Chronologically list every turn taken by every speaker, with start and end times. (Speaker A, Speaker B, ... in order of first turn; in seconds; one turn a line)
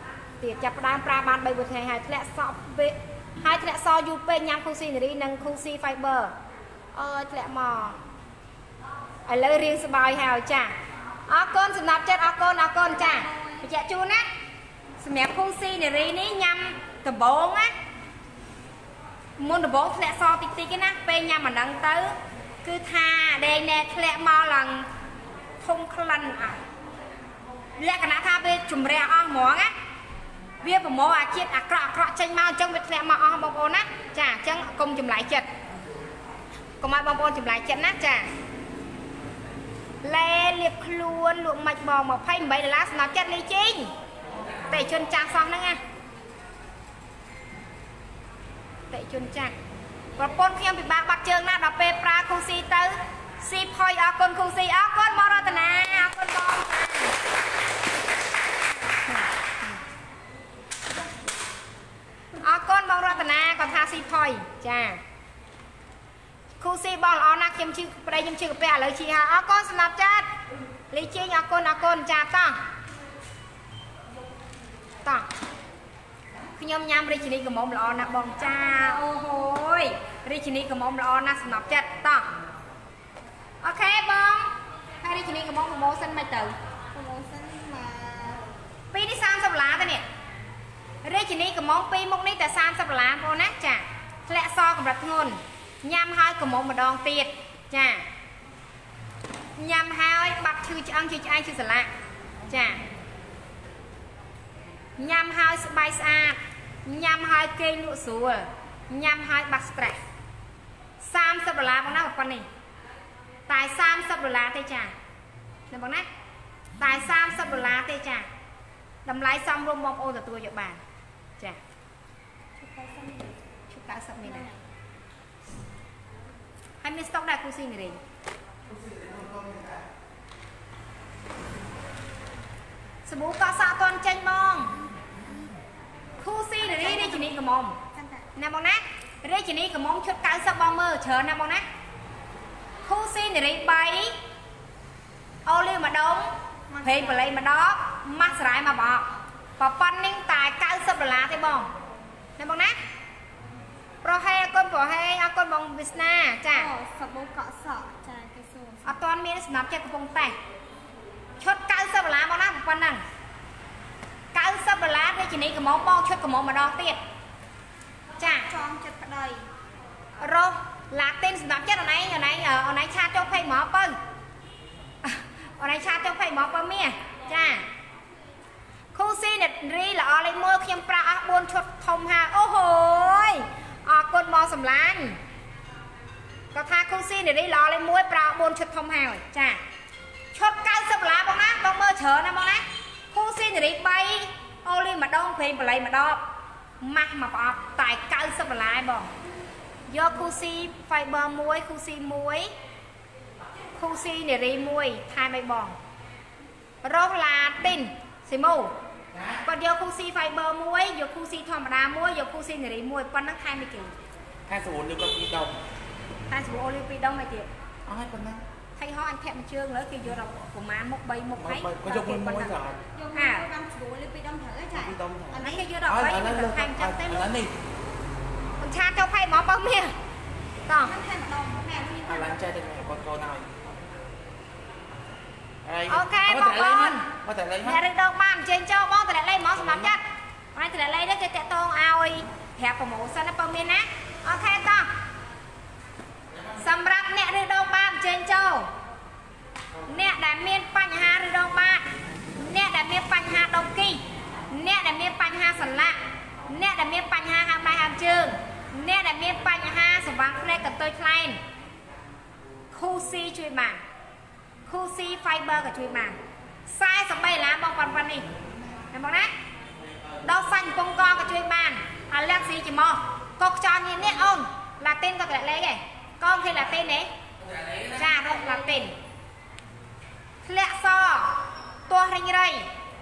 Speaker A: 0.4-6.3
Speaker A: 6.9-8.0
Speaker A: 9.3-10.8
Speaker A: 11.3-14.3
Speaker B: 12.9-13.7
Speaker A: 15.0-17.7
Speaker A: 19.4-24.9
Speaker A: 25.6-26.6
Speaker A: 27.8-29.7
Speaker A: 30.6-35.5
Speaker A: 36.8-38.3
Speaker A: 40.0-43.9
Speaker A: 44.7-45.8
Speaker A: 48.9-49.6
Speaker A: 50.2-57.1
Speaker A: 59.1-59.8
Speaker A: 62.4-65.0
Speaker A: 66.6-70.3
Speaker A: 70.9-72.6
Speaker A: 76.6-82.3
Speaker A: 83.6-86.6
Speaker B: 86.9-88.4
Speaker A: 88.9-90.0
Speaker A: 91.0-98.1
Speaker A: 99.6-101.9
Speaker A: 102.5-102.8
Speaker A: 105.0-110.0
Speaker A: 111.0-112.5
Speaker A: 113.5-114.9
Speaker A: 115.7-116.1
Speaker A: 116.8-118.3
Speaker A: 119.0-120.8
Speaker B: 122.6-123.4
Speaker A: 123.7-124.5
Speaker B: 124.2-124.6
Speaker A: 126.8-128.0
Speaker C: 128.7-129.9
Speaker A: 133.1-134.7
Speaker A: 136.2-137.8
Speaker B: 136.6-137.3
Speaker B: 137.9-138.3
Speaker A: 138.4-141.6
Speaker A: 142.8-144.2
Speaker A: 145.5-149.1
Speaker B: 146.7-147.4
Speaker A: 149.6-151.7
Speaker A: 152.4-152.8
Speaker A: 154.0-156.7
Speaker B: 156.5-158.9
Speaker A: 158.8-160.4
Speaker A: 161.4-163.0
Speaker A: 164.3-167.0
Speaker A: 168.2-168.5
Speaker B: 168.5-169.5
Speaker A: 170.2-174.0
Speaker A: 175.0-177.7
Speaker A: 178.9-185.2
Speaker A: 186.5-189.6
Speaker A: 190.3-196.2
Speaker A: 196.8-199.1
Speaker A: 199.9-202.5
Speaker A: 203.8-205.8
Speaker A: 206.8-208.7
Speaker C: 209.1-209.4
Speaker A: 209.4-213.9
Speaker C: 214.5-215.6
Speaker A: 216.3-217.5
Speaker C: 217.9-218.4
Speaker A: 218.8-222.6
Speaker C: 221.4-222.8
Speaker B: 222.9-225.7
Speaker A: 223.2-223.4
Speaker C: 224.7-227.6
Speaker A: 225.4-227.3
Speaker A: 228.6-229.9
Speaker A: 230.7-230.9
Speaker B: 230.8-232.7
Speaker C: 232.1-233.7
Speaker C: 235.6-237.9
Speaker A: 235.9-237.1
Speaker A: 237.6-240.0
Speaker C: 239.6-240.0
Speaker A: 240.6-244.9
Speaker C: 246.3-246.7
Speaker A: 246.6-248.7
Speaker A: 249.9-261.4
Speaker A: 262.7-263.8
Speaker A: 264.7-268.3
Speaker A: 268.9-269.3
Speaker C: 269.9-270.2
Speaker A: 270.2-277.1
Speaker C: 277.5-278.0
Speaker A: 277.9-279.0
Speaker A: 280.4-282.7